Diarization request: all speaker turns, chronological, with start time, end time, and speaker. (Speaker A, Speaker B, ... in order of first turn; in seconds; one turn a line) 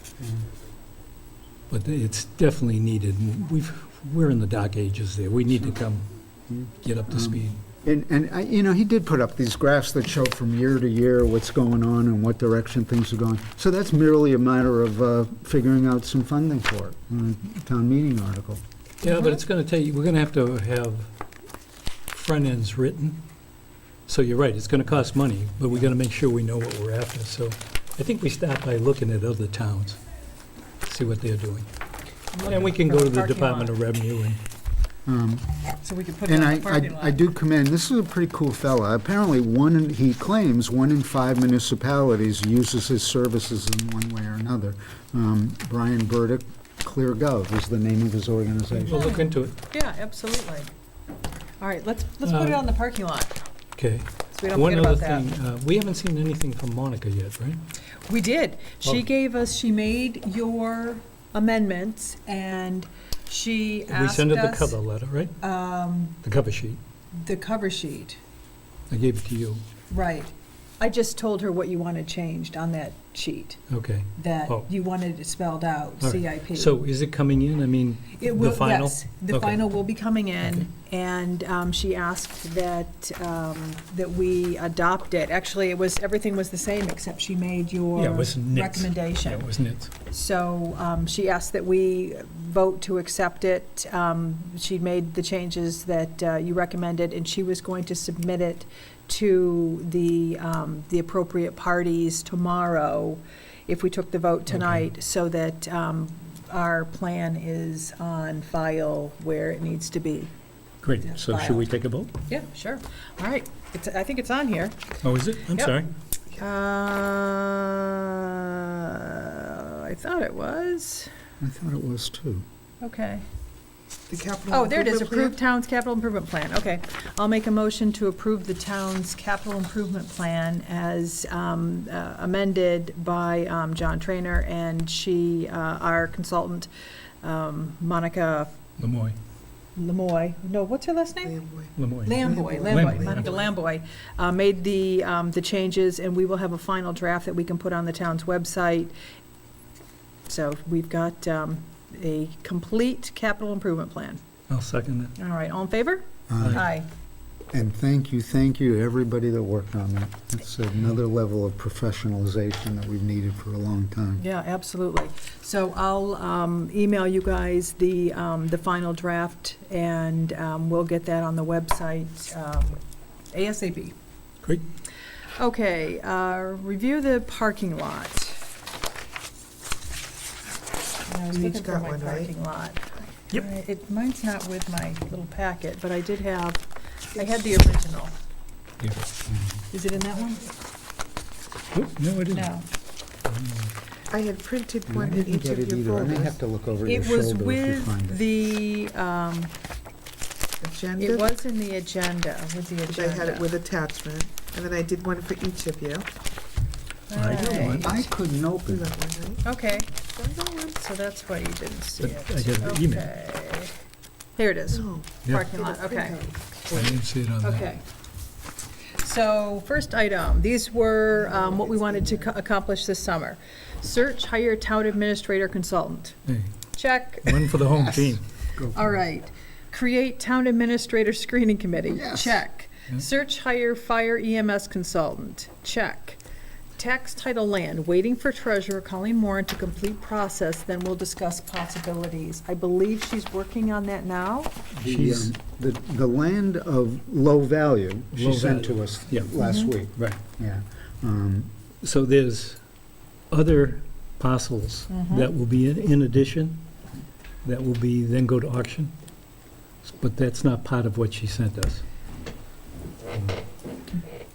Speaker A: 0.2-0.5
Speaker B: 1.7-6.0
Speaker A: 6.5-18.6
Speaker B: 6.8-7.6
Speaker B: 19.0-21.1
Speaker B: 22.1-23.2
Speaker B: 24.1-30.0
Speaker B: 30.8-31.7
Speaker C: 32.3-33.8
Speaker B: 32.4-34.4
Speaker A: 35.0-35.5
Speaker C: 35.8-37.2
Speaker A: 36.3-49.2
Speaker B: 48.7-49.5
Speaker C: 48.9-50.7
Speaker C: 51.6-53.4
Speaker B: 52.2-52.6
Speaker B: 53.8-57.6
Speaker C: 54.3-55.3
Speaker C: 58.1-64.8
Speaker B: 63.9-65.3
Speaker C: 65.4-66.2
Speaker B: 66.2-66.8
Speaker C: 67.1-68.2
Speaker B: 68.9-69.6
Speaker C: 69.9-73.6
Speaker B: 73.7-74.7
Speaker C: 74.2-76.8
Speaker B: 76.0-79.6
Speaker C: 78.2-89.5
Speaker B: 80.4-80.7
Speaker B: 88.0-89.9
Speaker C: 90.1-110.3
Speaker B: 104.5-104.8
Speaker B: 110.8-112.1
Speaker C: 111.0-111.6
Speaker C: 112.3-115.0
Speaker B: 115.0-115.9
Speaker C: 115.5-115.8
Speaker C: 116.4-121.1
Speaker A: 121.4-122.4
Speaker C: 122.8-123.2
Speaker D: 124.1-125.4
Speaker C: 124.5-136.7
Speaker C: 137.2-138.5
Speaker B: 138.8-139.2
Speaker C: 139.8-141.4
Speaker D: 141.2-143.5
Speaker B: 141.8-143.3
Speaker C: 142.0-148.9
Speaker C: 150.3-154.2
Speaker B: 154.5-155.1
Speaker C: 155.2-156.9
Speaker A: 156.3-156.7
Speaker A: 157.5-164.2
Speaker C: 164.2-172.8
Speaker C: 173.3-173.9
Speaker C: 175.4-178.4
Speaker C: 181.1-188.2
Speaker D: 181.3-182.3
Speaker B: 188.8-189.1
Speaker A: 189.3-189.6
Speaker C: 189.7-190.5
Speaker B: 191.7-192.5
Speaker C: 192.3-192.7
Speaker B: 193.2-193.7
Speaker D: 194.1-196.4
Speaker A: 194.9-198.2
Speaker C: 196.8-199.5
Speaker D: 200.6-201.3
Speaker C: 201.0-203.5
Speaker D: 202.9-206.1
Speaker C: 207.1-208.0
Speaker B: 207.1-208.0
Speaker D: 207.3-208.0
Speaker A: 207.8-208.9
Speaker D: 208.7-210.8
Speaker C: 209.4-209.9
Speaker C: 210.7-213.7
Speaker B: 212.0-213.1
Speaker C: 214.4-216.3
Speaker D: 214.7-217.0
Speaker B: 216.7-217.8
Speaker C: 217.4-217.8
Speaker C: 219.0-226.2
Speaker D: 221.2-222.3
Speaker B: 226.3-226.5
Speaker C: 226.8-227.6
Speaker B: 227.2-228.2
Speaker A: 227.7-229.0
Speaker C: 228.7-236.2
Speaker A: 231.9-232.4
Speaker C: 236.8-244.6
Speaker A: 244.8-251.5
Speaker B: 244.8-245.3
Speaker B: 248.1-249.3
Speaker C: 249.4-249.7
Speaker B: 251.8-252.6
Speaker B: 253.3-256.6
Speaker C: 254.9-255.3
Speaker B: 257.4-258.9
Speaker B: 259.8-261.8
Speaker A: 263.1-263.4